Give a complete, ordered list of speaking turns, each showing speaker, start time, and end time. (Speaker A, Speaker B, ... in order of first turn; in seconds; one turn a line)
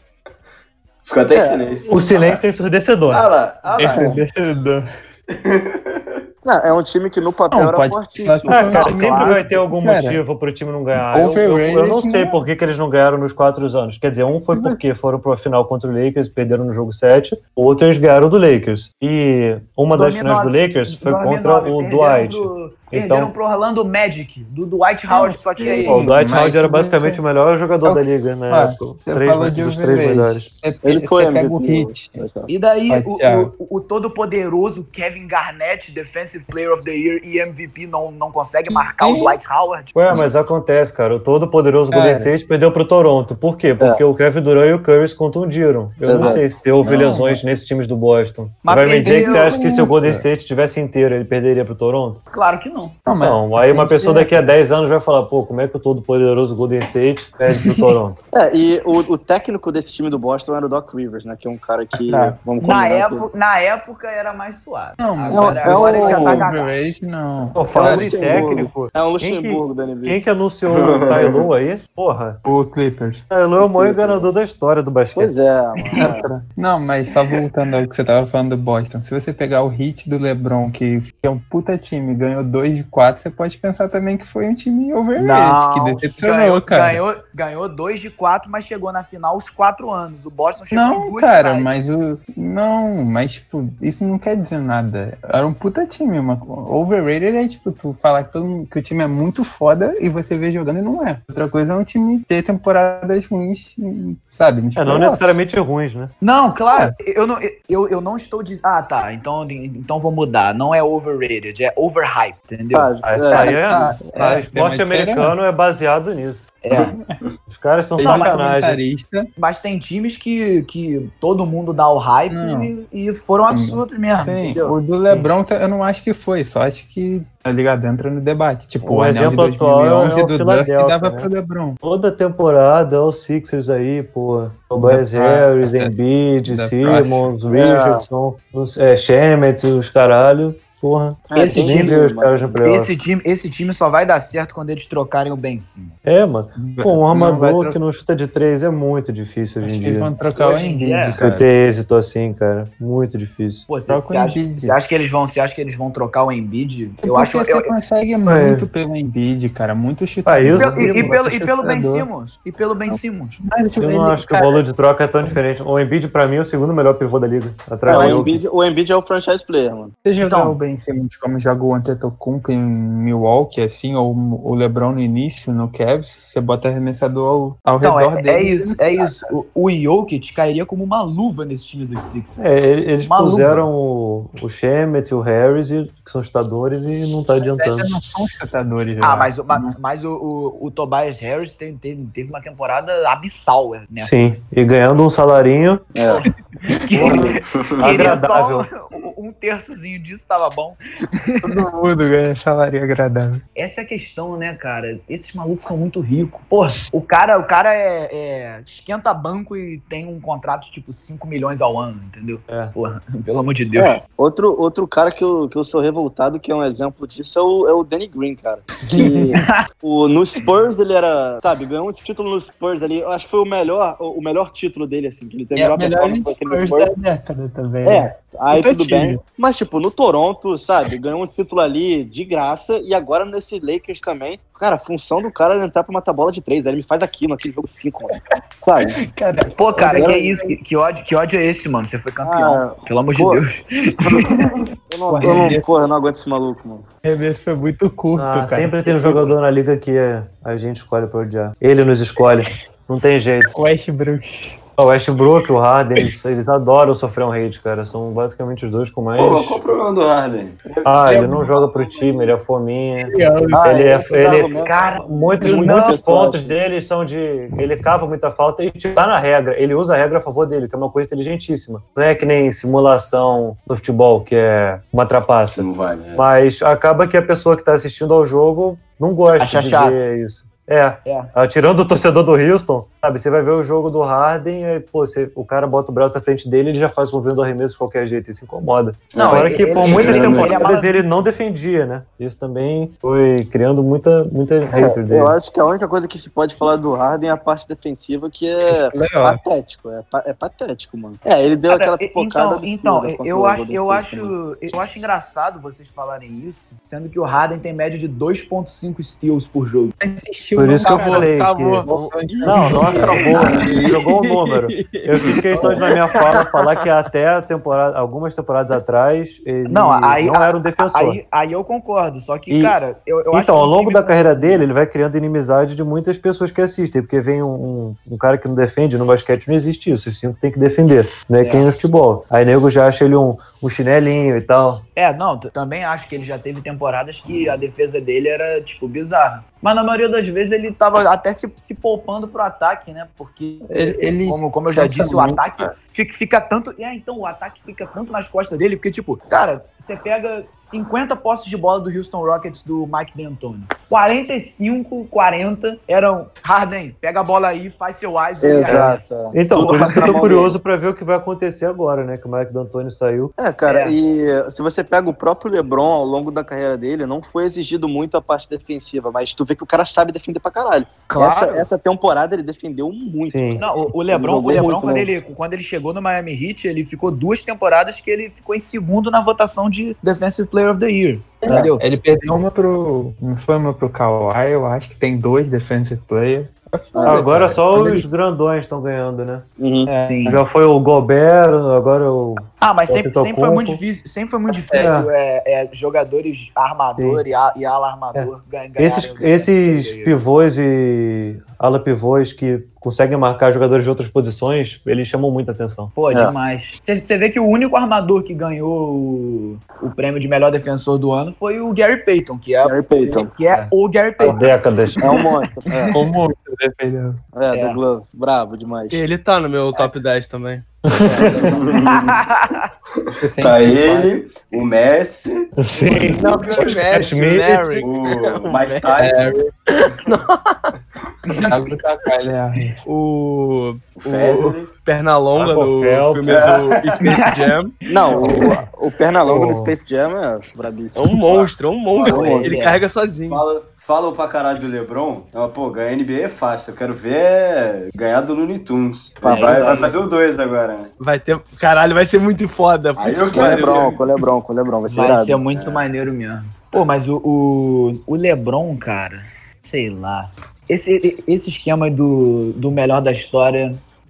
Speaker A: 1.1-2.4
Speaker B: 1.3-1.8
Speaker C: 1.9-3.3
Speaker A: 3.1-4.1
Speaker D: 3.7-4.9
Speaker B: 3.8-4.2
Speaker A: 5.3-6.2
Speaker B: 6.4-9.4
Speaker D: 7.5-10.2
Speaker C: 8.5-23.3
Speaker D: 10.9-12.4
Speaker D: 14.5-14.8
Speaker E: 19.9-26.1
Speaker D: 25.1-27.2
Speaker C: 25.9-30.5
Speaker D: 27.8-32.2
Speaker B: 30.8-32.5
Speaker E: 32.5-40.2
Speaker D: 32.9-33.5
Speaker D: 38.8-39.4
Speaker C: 39.9-52.2
Speaker D: 41.9-42.3
Speaker D: 46.0-47.4
Speaker B: 46.0-46.4
Speaker E: 48.6-49.5
Speaker D: 49.0-50.3
Speaker E: 52.3-53.0
Speaker D: 53.1-54.5
Speaker C: 53.2-58.2
Speaker B: 58.3-63.3
Speaker D: 61.9-62.4
Speaker E: 62.6-66.8
Speaker D: 65.0-68.5
Speaker B: 65.3-66.5
Speaker C: 67.5-72.4
Speaker B: 67.8-70.2
Speaker A: 70.7-71.5
Speaker D: 72.4-73.3
Speaker C: 73.3-75.3
Speaker B: 73.8-74.2
Speaker B: 75.2-76.3
Speaker D: 76.0-87.0
Speaker E: 85.2-91.8
Speaker D: 90.7-105.4
Speaker C: 104.7-106.1
Speaker E: 106.2-113.8
Speaker B: 112.7-113.6
Speaker C: 113.0-116.5
Speaker D: 113.6-115.3
Speaker E: 116.6-117.0
Speaker D: 116.7-117.0
Speaker C: 117.5-118.8
Speaker D: 118.0-119.3
Speaker E: 118.0-118.4
Speaker E: 119.4-124.8
Speaker D: 122.3-122.7
Speaker D: 123.5-131.8
Speaker C: 128.8-131.3
Speaker C: 131.8-142.9
Speaker D: 134.8-137.3
Speaker B: 137.5-138.1
Speaker B: 141.3-142.4
Speaker E: 141.3-145.9
Speaker C: 146.1-150.1
Speaker D: 146.6-147.8
Speaker D: 149.6-151.5
Speaker E: 150.4-151.2
Speaker C: 151.2-153.7
Speaker E: 153.7-157.7
Speaker D: 153.8-154.8
Speaker D: 157.0-162.1
Speaker C: 158.3-158.7
Speaker C: 160.2-161.2
Speaker E: 160.5-163.4
Speaker D: 162.9-164.7
Speaker C: 163.8-168.4
Speaker B: 167.9-169.9
Speaker D: 170.1-179.3
Speaker E: 170.2-170.6
Speaker E: 177.8-182.4
Speaker C: 182.4-187.9
Speaker E: 183.0-183.7
Speaker D: 187.4-189.8
Speaker E: 189.0-194.4
Speaker C: 194.0-195.8
Speaker B: 195.9-196.2
Speaker E: 196.2-201.6
Speaker C: 196.9-198.7
Speaker A: 197.5-197.9
Speaker D: 201.4-203.4
Speaker E: 203.6-214.0
Speaker C: 212.5-212.7
Speaker B: 213.8-226.9
Speaker D: 218.9-219.4
Speaker E: 219.3-219.6
Speaker D: 225.6-229.2
Speaker B: 227.8-239.0
Speaker D: 238.9-240.4
Speaker E: 239.5-244.5
Speaker B: 239.9-240.2
Speaker B: 242.2-243.4
Speaker B: 244.9-246.8
Speaker D: 245.1-245.6
Speaker D: 247.0-249.4
Speaker C: 248.1-253.5
Speaker D: 253.5-254.6
Speaker C: 254.8-259.6
Speaker A: 259.2-262.3
Speaker C: 260.8-295.4
Speaker D: 261.0-261.6
Speaker D: 263.0-264.0
Speaker B: 263.5-266.5
Speaker E: 264.5-266.0
Speaker A: 275.5-276.3
Speaker E: 279.3-280.1
Speaker E: 281.1-281.3
Speaker A: 289.1-290.6
Speaker E: 289.2-291.2
Speaker B: 294.7-304.3
Speaker D: 298.7-299.4
Speaker E: 301.7-309.9
Speaker D: 310.0-314.1
Speaker C: 310.6-311.9
Speaker F: 310.8-316.8
Speaker C: 312.4-321.2
Speaker D: 315.5-315.8
Speaker E: 319.7-324.7
Speaker C: 322.5-322.8
Speaker C: 323.3-334.8
Speaker E: 331.4-331.7
Speaker E: 334.9-360.3
Speaker D: 343.7-345.7
Speaker B: 358.4-360.6
Speaker C: 358.7-363.3
Speaker B: 363.4-375.1
Speaker E: 363.6-364.0
Speaker E: 371.1-371.7
Speaker C: 373.3-373.6
Speaker E: 373.6-381.8
Speaker D: 381.4-388.1
Speaker B: 386.9-387.3
Speaker C: 387.1-389.4
Speaker B: 389.6-389.9
Speaker D: 389.9-390.4
Speaker E: 390.0-390.4
Speaker C: 390.3-393.8
Speaker E: 392.6-400.2
Speaker D: 394.7-394.9
Speaker C: 394.8-395.1
Speaker C: 397.0-397.2
Speaker C: 398.1-405.9
Speaker E: 405.9-415.2
Speaker B: 406.1-406.4
Speaker B: 412.6-413.3
Speaker C: 414.2-415.0
Speaker B: 415.0-416.0
Speaker D: 415.9-417.2
Speaker B: 417.4-419.1
Speaker E: 417.5-417.8
Speaker F: 418.9-420.7
Speaker C: 420.9-421.6
Speaker B: 421.0-421.6
Speaker A: 421.5-422.2
Speaker E: 421.8-422.7
Speaker A: 423.1-426.8
Speaker D: 423.2-424.1
Speaker C: 425.6-427.9
Speaker F: 425.9-429.2
Speaker A: 427.8-429.3
Speaker D: 429.0-429.5
Speaker F: 429.7-430.5
Speaker E: 431.3-431.6
Speaker D: 431.4-432.8
Speaker F: 432.9-437.7
Speaker A: 434.0-434.7
Speaker C: 435.4-436.4
Speaker A: 436.3-437.0
Speaker B: 437.9-441.5
Speaker E: 437.9-438.6
Speaker C: 438.2-438.6
Speaker C: 439.3-439.7
Speaker F: 440.9-443.4
Speaker B: 442.0-442.5
Speaker E: 442.1-442.9
Speaker A: 443.3-450.9
Speaker B: 449.2-450.0
Speaker E: 449.2-450.0
Speaker F: 451.0-454.0
Speaker A: 452.9-454.0
Speaker B: 453.3-455.4
Speaker E: 454.9-463.8
Speaker A: 455.5-455.8